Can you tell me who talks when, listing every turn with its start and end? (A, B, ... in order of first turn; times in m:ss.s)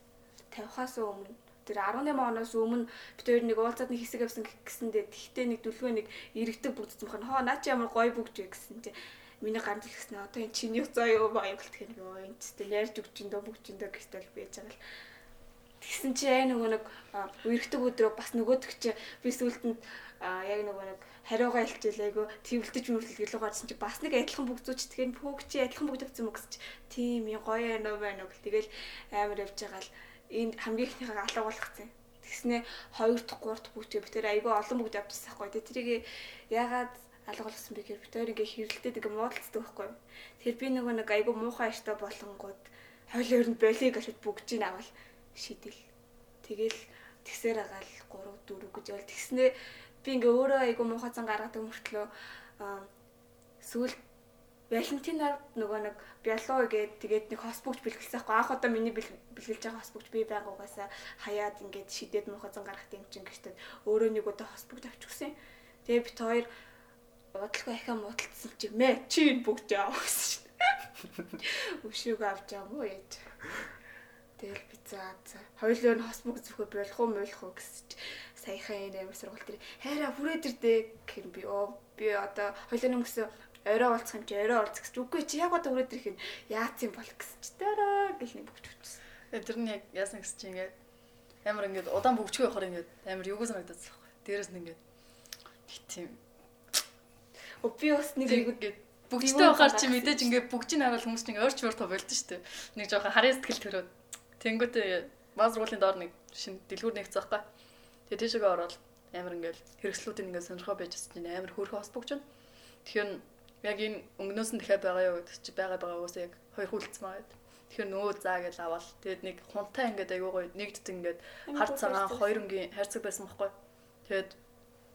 0:00.5-0:14.8 A
0:15.8-0:45.8 A
0:46.4-0:52.9 A
0:53.6-0:54.0 A
0:54.7-1:06.5 A
1:07.3-1:10.5 A
1:11.4-1:13.2 A
1:14.4-1:29.0 A
1:29.3-1:30.7 B
1:31.4-1:34.8 B
1:35.7-1:36.2 B
1:37.6-1:38.6 A
1:38.2-1:47.4 B
1:39.2-1:40.4 A
1:48.1-1:52.2 B
1:52.8-2:03.5 B
2:01.5-2:02.4 A
2:04.1-2:04.4 B